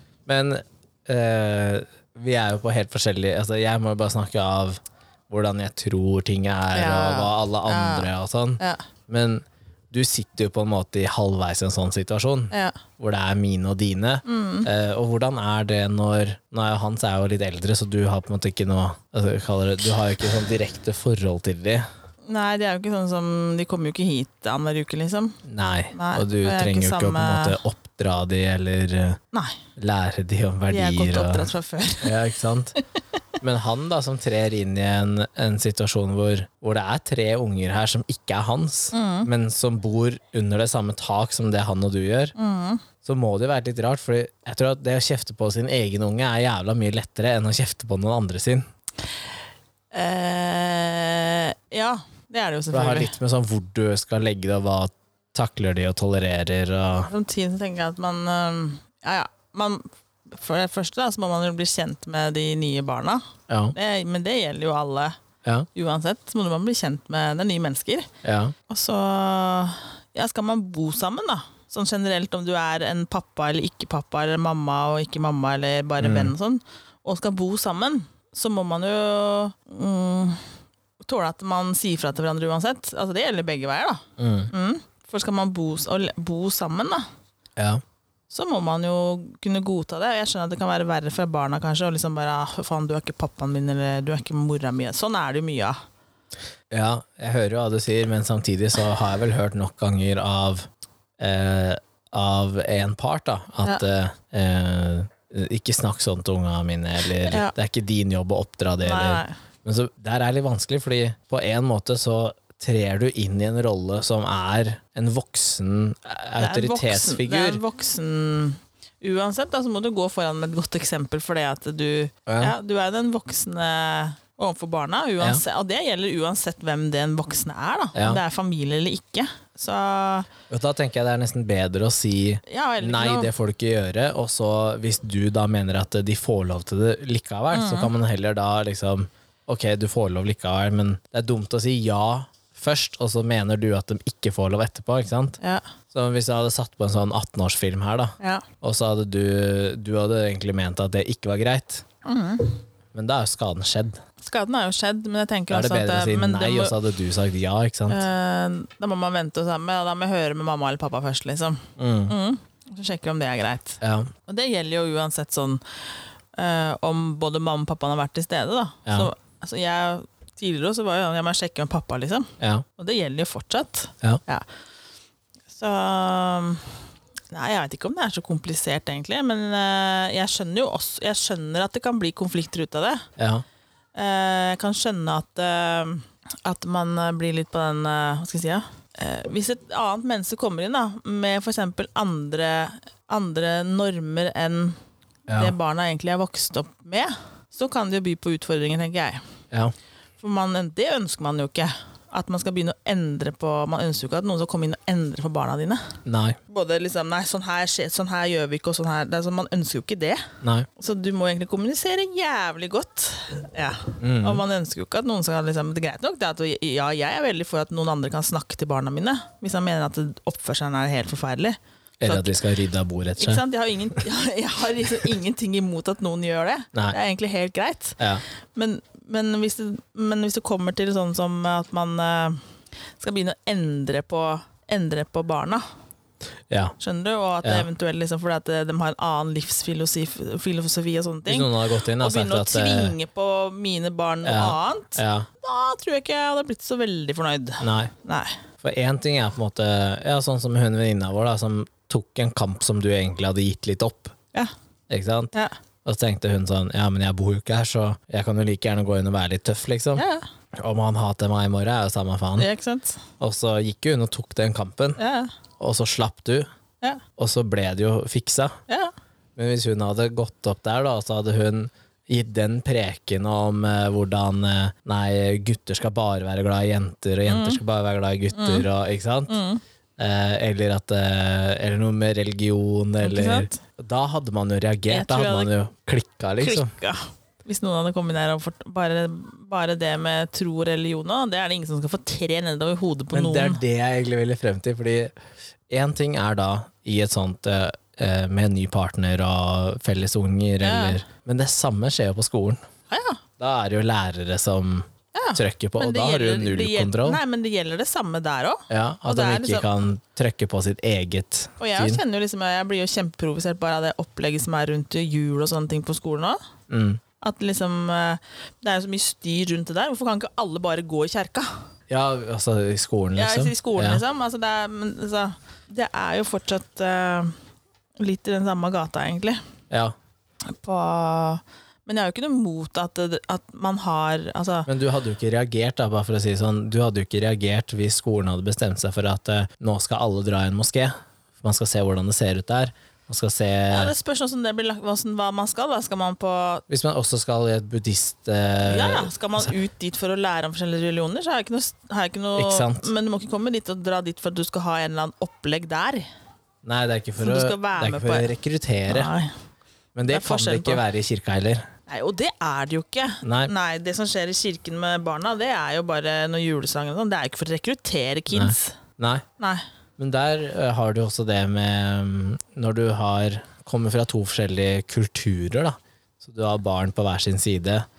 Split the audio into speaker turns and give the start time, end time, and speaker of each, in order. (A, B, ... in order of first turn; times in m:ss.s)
0:00.2-0:04.8 A
0:05.3-0:21.8 A
0:06.7-0:08.8 B
0:12.5-0:12.8 B
0:14.2-0:14.7 B
0:22.3-0:25.4 B
0:25.4-0:29.2 A
0:25.9-0:27.6 B
0:29.3-0:29.6 B
0:29.8-0:31.5 A
0:30.7-0:32.2 B
0:32.0-0:32.7 A
0:33.4-0:42.3 A
0:38.9-0:39.3 B
0:42.3-0:42.8 B
0:43.0-0:48.6 A
0:49.9-0:53.1 B
0:52.7-0:57.1 A
0:57.1-1:05.2 B
1:03.5-1:03.7 A
1:05.7-1:08.1 B
1:08.2-1:08.5 A
1:08.7-1:20.4 B
1:16.0-1:16.3 A
1:21.0-1:27.1 B
1:24.2-1:24.5 A
1:27.6-1:27.8 A
1:28.3-1:35.8 B
1:36.7-1:40.7 A
1:41.2-1:57.6 A
1:47.2-1:47.5 B
1:48.8-1:49.3 B
1:56.4-2:10.3 B
2:02.3-2:02.5 A
2:07.9-2:08.2 A
2:10.5-2:25.4 A
2:12.4-2:13.3 B
2:17.5-2:17.9 B
2:25.9-2:31.8 A
2:28.2-2:28.4 B
2:32.0-2:32.6 B
2:32.9-2:34.0 A
2:34.2-2:36.7 B
2:35.5-2:38.0 A
2:37.9-2:45.6 B
2:41.8-2:42.1 A
2:43.8-2:44.1 A
2:46.4-2:54.4 B
2:52.4-2:52.6 A
2:55.5-2:56.7 B
2:57.3-3:03.1 B
3:03.2-3:03.4 A
3:04.0-3:14.8 B
3:15.3-3:15.5 A
3:15.3-3:19.2 B
3:20.2-3:26.0 B
3:26.0-3:26.4 A
3:26.5-3:42.4 B
3:30.4-3:30.7 A
3:34.0-3:34.4 A
3:42.0-3:43.4 A
3:43.2-3:48.0 B
3:48.5-3:52.4 B
3:53.0-3:55.6 B
3:56.5-3:56.7 A
3:56.8-4:08.4 B
4:01.3-4:02.9 A
4:04.2-4:05.3 A
4:07.6-4:07.9 A
4:08.6-4:14.1 A
4:14.9-4:15.3 A
4:15.8-4:22.5 A
4:19.9-4:20.2 B
4:22.4-4:23.0 B
4:23.2-4:25.0 A
4:25.0-4:25.3 B
4:25.6-4:26.5 A
4:27.2-4:28.6 A
4:28.7-4:28.9 B
4:29.4-4:39.4 A
4:37.3-4:37.6 B
4:38.3-4:38.7 B
4:39.3-4:39.6 B
4:40.0-4:46.7 A
4:43.0-4:43.6 B
4:44.9-4:45.5 B
4:46.4-4:53.6 B
4:53.1-4:55.1 A
4:55.7-5:02.6 A
5:00.6-5:01.0 B
5:02.9-5:03.2 B
5:03.4-5:07.2 A
5:05.1-5:09.7 B
5:08.7-5:12.0 A
5:11.6-5:16.4 B
5:16.7-5:17.0 A
5:17.2-5:21.5 B
5:21.9-5:24.0 A
5:23.2-5:27.3 B
5:28.0-5:29.4 B
5:29.7-5:29.9 A
5:30.5-5:34.7 B
5:34.7-5:43.9 A
5:43.7-5:46.6 B
5:46.7-5:49.5 A
5:48.6-5:56.0 B
5:52.4-5:52.9 A
5:56.6-5:59.1 A
5:57.2-5:58.3 B
5:58.9-5:59.3 B
5:59.9-6:01.6 A
6:00.1-6:00.8 B
6:01.9-6:08.8 B
6:03.2-6:03.5 A
6:08.3-6:09.2 A
6:10.0-6:17.8 A